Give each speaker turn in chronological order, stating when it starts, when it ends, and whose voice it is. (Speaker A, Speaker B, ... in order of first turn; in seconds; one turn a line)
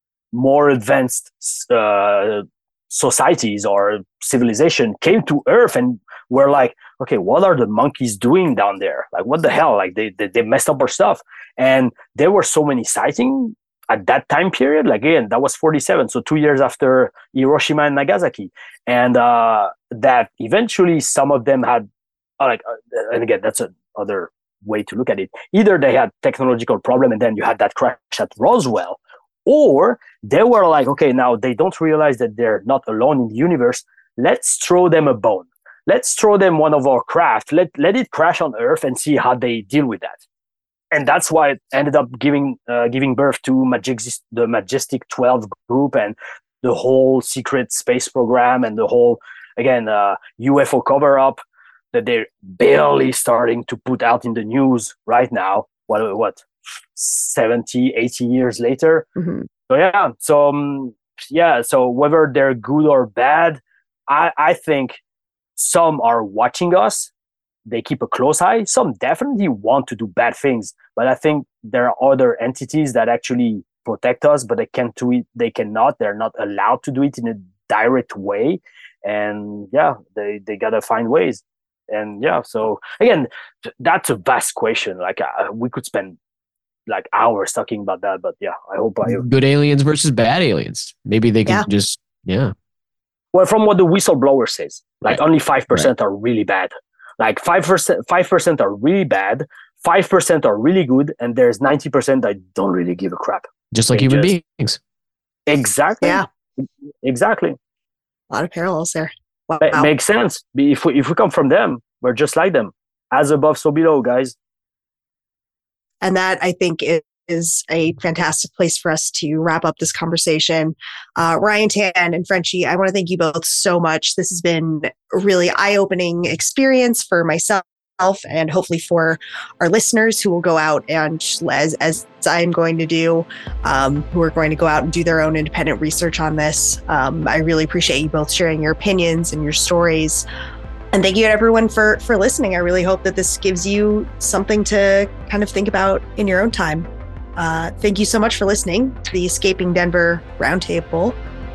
Speaker A: 0.3-21.9
Speaker A: 22.4-40.2
Speaker A: 40.9-51.4
Speaker A: 51.9-59.1
Speaker B: 59.2-59.5
Speaker A: 59.7-65.0
Speaker A: 65.6-67.1
Speaker A: 67.7-86.2
Speaker A: 86.9-89.3
Speaker C: 89.0-92.5
Speaker A: 93.3-104.3
Speaker C: 103.7-104.8
Speaker A: 105.5-106.2
Speaker A: 107.0-107.6
Speaker B: 108.3-109.9
Speaker A: 109.6-114.3
Speaker B: 116.0-140.2
Speaker B: 140.9-151.2